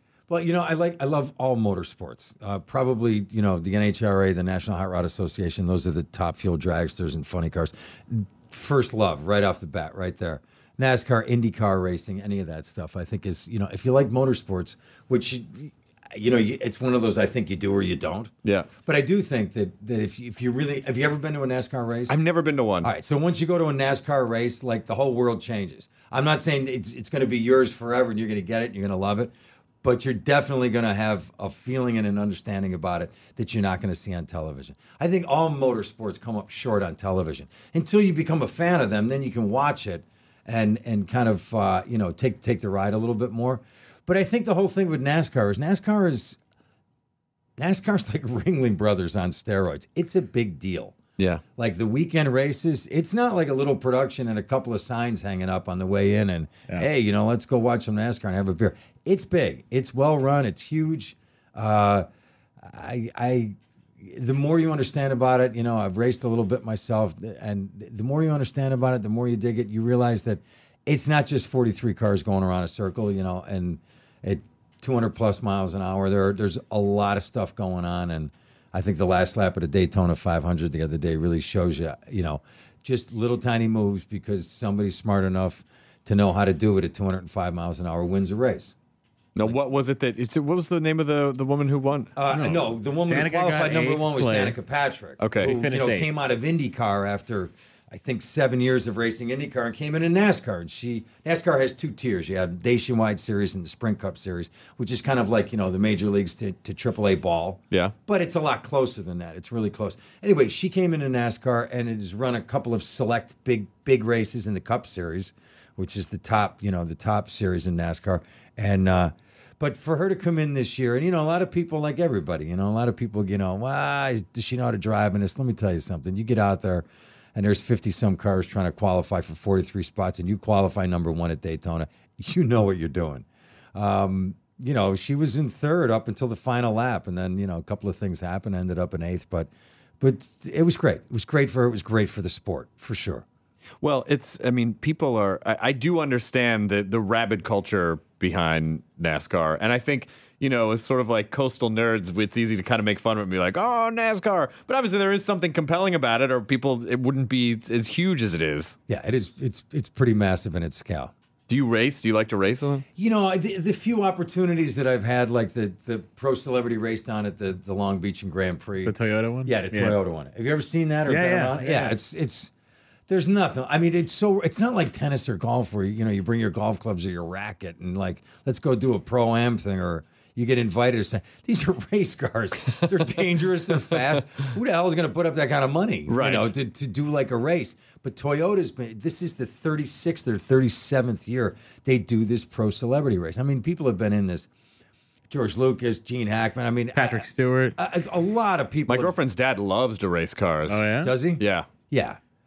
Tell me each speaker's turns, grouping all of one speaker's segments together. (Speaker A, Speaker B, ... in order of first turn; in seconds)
Speaker A: 0.3-18.3, 18.8-22.2, 22.8-46.4, 47.6-51.0, 51.6-62.1, 62.6-88.7, 92.2-139.5, 140.0-143.2, 158.9-161.1, 163.0-172.5, 173.1-194.5, 195.3-199.1, 201.0-202.2
Speaker B: 18.4-18.7, 22.1-22.9, 89.3-92.2, 95.2-95.6, 143.8-158.8, 161.5-162.8, 186.1-186.5, 198.9-200.9, 201.4-201.7
Speaker C: 92.3-94.6, 95.4-96.1, 168.8-170.0, 171.1-171.9, 196.9-197.8, 200.7-201.2